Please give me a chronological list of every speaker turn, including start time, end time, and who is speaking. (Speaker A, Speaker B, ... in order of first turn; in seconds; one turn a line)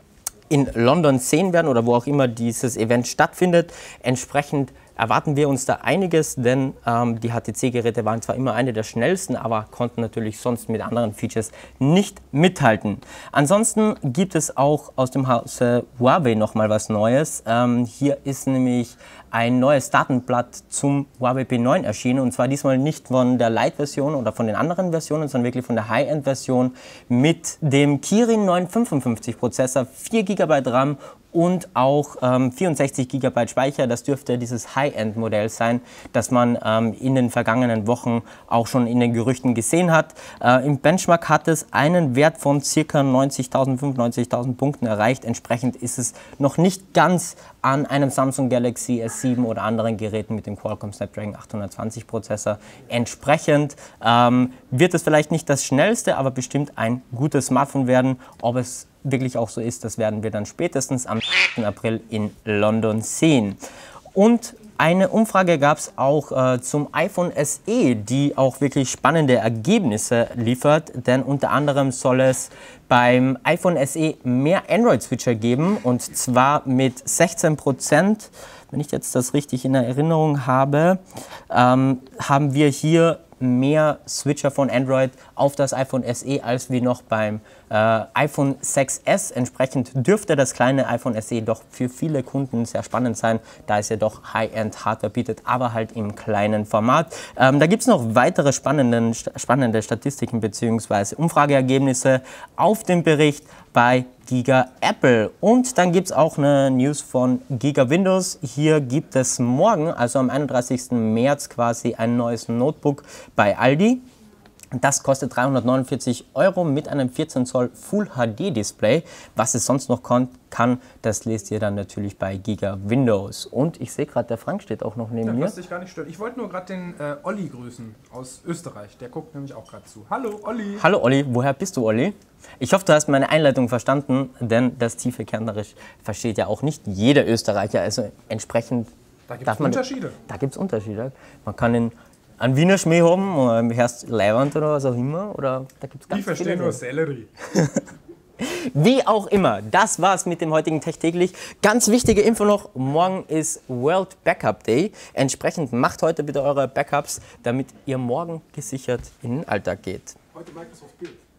Speaker A: 0.5-63.6
Speaker A: 64.1-114.0
Speaker A: 114.7-125.5
Speaker B: 125.2-130.8
Speaker A: 130.8-138.9
Speaker B: 139.3-140.2
Speaker A: 139.4-146.8
Speaker B: 146.1-147.3
Speaker A: 147.4-147.8
Speaker A: 148.4-160.2
Speaker B: 160.4-161.1